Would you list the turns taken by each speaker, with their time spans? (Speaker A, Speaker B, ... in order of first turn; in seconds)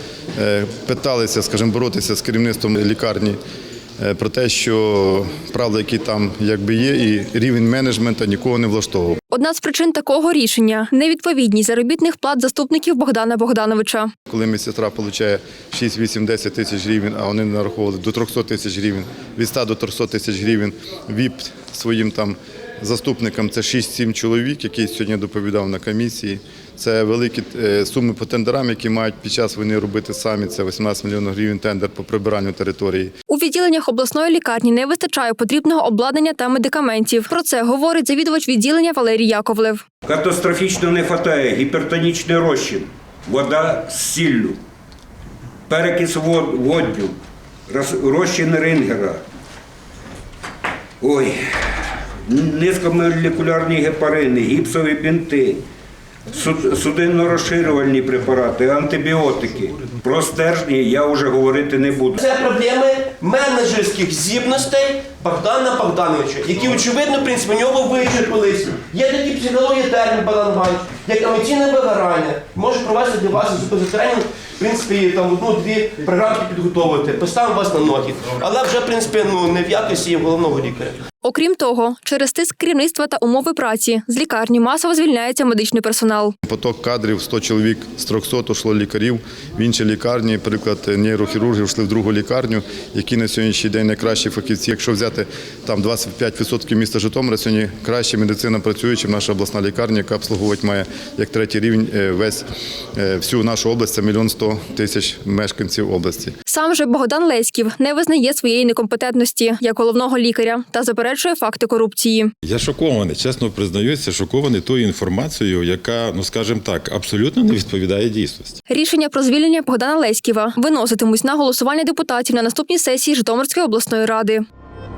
Speaker A: 0.4-3.4, 4.0-9.2, 14.3-33.1, 86.4-106.3
Speaker B: 9.3-14.1, 33.3-39.8, 81.2-86.3, 106.5-112.3, 118.7-124.4
Speaker C: 40.0-44.6, 45.7-47.1, 47.7-49.2, 51.0-55.6, 56.3-62.1
Speaker D: 62.1-81.0
Speaker E: 112.4-118.6